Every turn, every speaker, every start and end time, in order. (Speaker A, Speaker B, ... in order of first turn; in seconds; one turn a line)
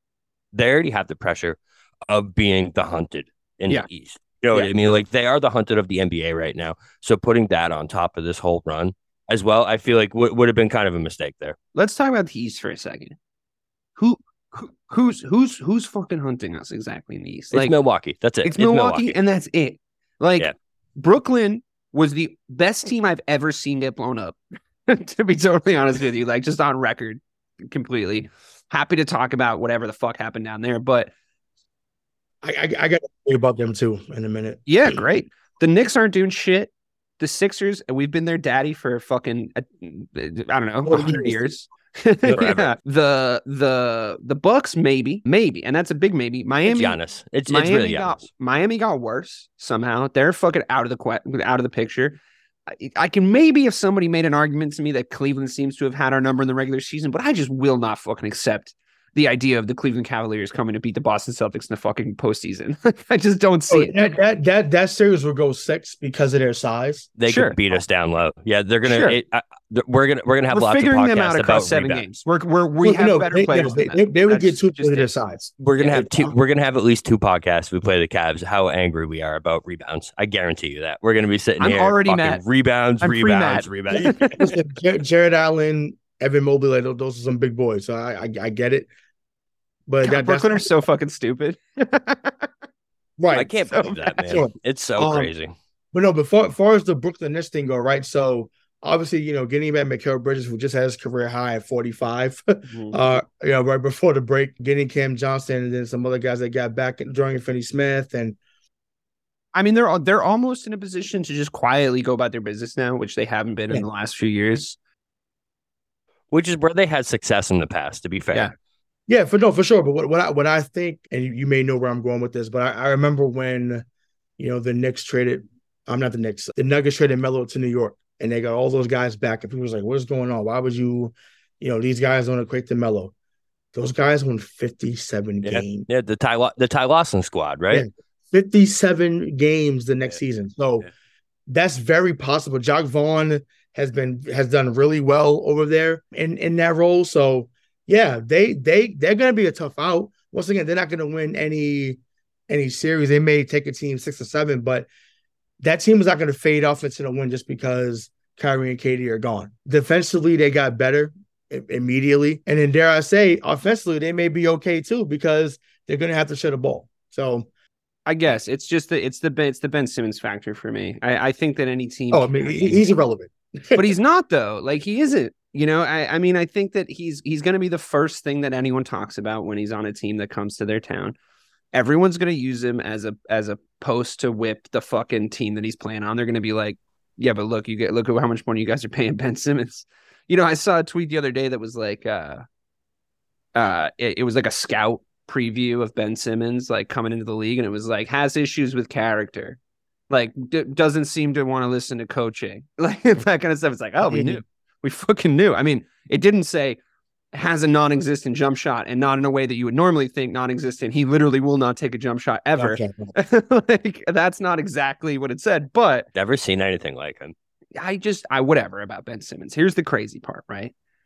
Speaker A: 0.5-1.6
Speaker A: 2.1-11.6
Speaker B: 11.7-13.2
Speaker B: 14.0-17.7
Speaker A: 17.5-19.1
Speaker B: 18.4-31.1
Speaker C: 32.4-34.6
Speaker B: 34.6-64.0
Speaker C: 40.8-41.4
Speaker A: 42.3-42.7
Speaker A: 46.6-48.2
Speaker C: 63.7-67.1
Speaker A: 67.2-72.0
Speaker B: 67.3-67.5
Speaker B: 68.8-69.2
Speaker B: 70.5-75.1
Speaker C: 72.8-76.3
Speaker A: 75.6-84.3
Speaker B: 81.6-82.4
Speaker B: 83.0-84.5
Speaker C: 84.0-88.9
Speaker C: 89.9-90.6
Speaker B: 90.0-92.5
Speaker C: 93.2-95.3
Speaker A: 93.3-95.5
Speaker B: 93.7-94.0
Speaker C: 95.9-108.4
Speaker B: 102.7-103.0
Speaker B: 109.5-114.8
Speaker A: 116.3-118.5
Speaker C: 119.1-123.8
Speaker C: 124.4-133.1
Speaker C: 133.7-135.8
Speaker A: 135.4-137.8
Speaker C: 137.7-140.9
Speaker C: 141.5-154.9
Speaker C: 155.6-167.5
Speaker B: 168.1-172.8
Speaker C: 172.1-173.9
Speaker B: 173.7-181.2
Speaker B: 181.7-192.4
Speaker B: 193.5-199.6
Speaker B: 200.1-206.8
Speaker C: 204.0-204.4
Speaker B: 207.3-216.1
Speaker C: 212.6-213.1
Speaker A: 216.2-217.3
Speaker B: 217.8-220.7